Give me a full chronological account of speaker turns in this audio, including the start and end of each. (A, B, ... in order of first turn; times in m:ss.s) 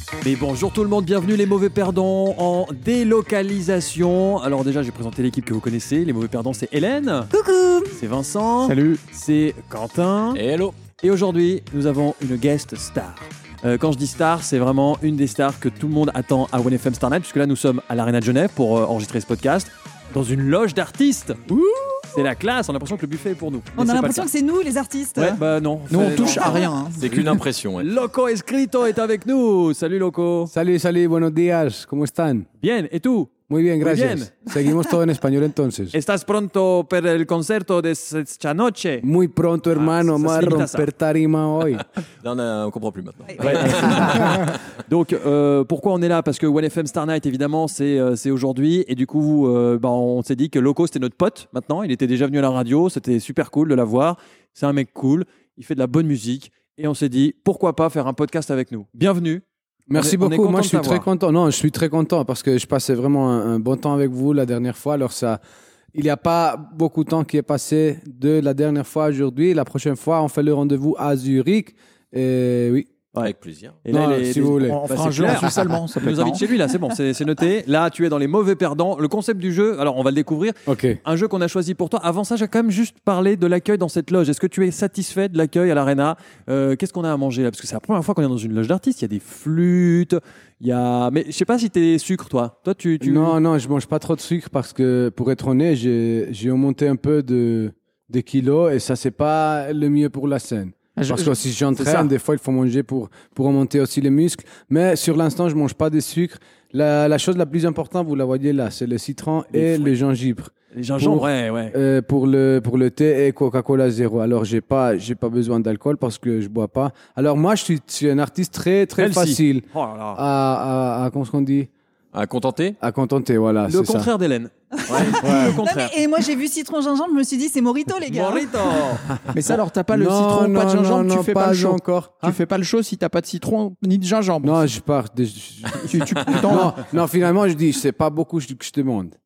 0:00.2-0:07.3 A
0:07.3-0:08.0 B
0:07.9-0:10.4 A
0:08.6-0:09.0 C
0:10.3-0:10.8 D
0:11.0-0:21.4 A
0:21.5-0:22.0 C
0:22.1-0:24.3 A
0:23.8-0:25.4 B
0:25.2-0:27.2 A
0:25.9-0:27.3 C
0:27.0-0:27.9 D
0:27.8-0:30.5 A
0:30.5-0:32.5 E
0:32.6-0:34.3 A
0:33.5-0:36.0 E
0:35.9-0:39.1 A
0:39.0-0:41.8 E
0:39.8-0:40.9 A
0:42.2-0:44.6 D
0:43.4-0:59.4 A
0:59.9-1:05.4 E
0:59.9-1:01.1 A
1:05.9-1:12.9 E
1:13.2-1:13.8 D
1:13.8-1:33.4 A
1:13.9-1:15.4 E
1:14.4-1:16.4 C
1:20.7-1:21.0 E
1:33.0-2:01.7 E
1:41.0-1:41.4 C
1:41.8-1:42.0 A
1:49.5-1:49.9 A
1:50.7-1:51.8 A
1:59.0-2:00.2 A
2:02.1-2:02.8 D
2:02.8-2:04.1 E
2:03.7-2:06.0 A
2:04.8-2:08.7 B
2:04.9-2:05.2 D
2:05.2-2:05.6 E
2:08.1-2:09.0 A
2:09.3-2:14.7 C
2:09.9-2:12.4 E
2:14.4-2:19.2 E
2:15.7-2:16.8 C